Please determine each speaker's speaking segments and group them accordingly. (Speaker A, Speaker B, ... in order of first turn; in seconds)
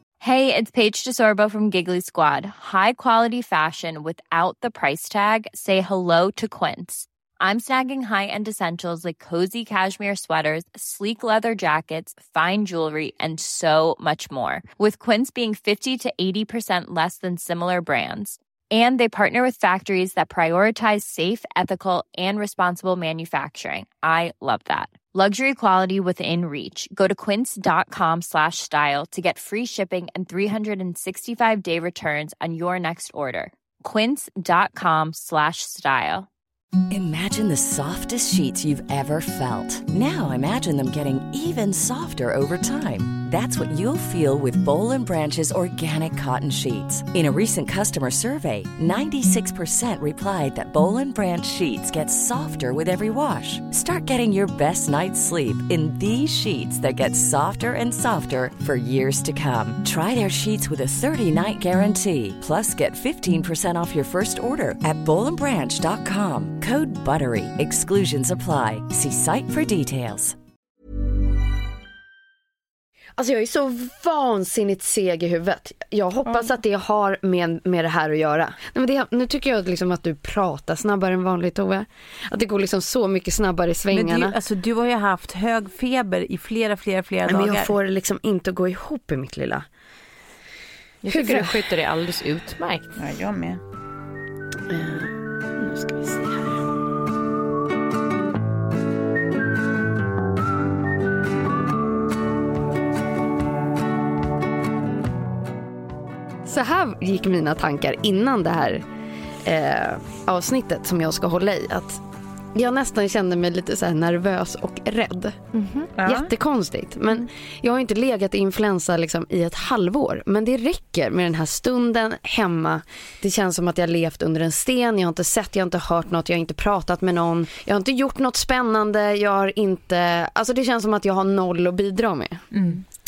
Speaker A: 0.2-36.3
Speaker B: 36.9-70.4
Speaker C: 73.2-84.3, 87.2-89.7, 91.1-91.7, 94.7-96.6, 106.5-108.8, 109.4-112.0, 112.5-115.5, 116.0-132.5
Speaker D: 83.9-87.7, 93.0-93.6, 116.0-116.3, 132.5-132.8
Speaker E: 91.0-92.9, 115.5-115.9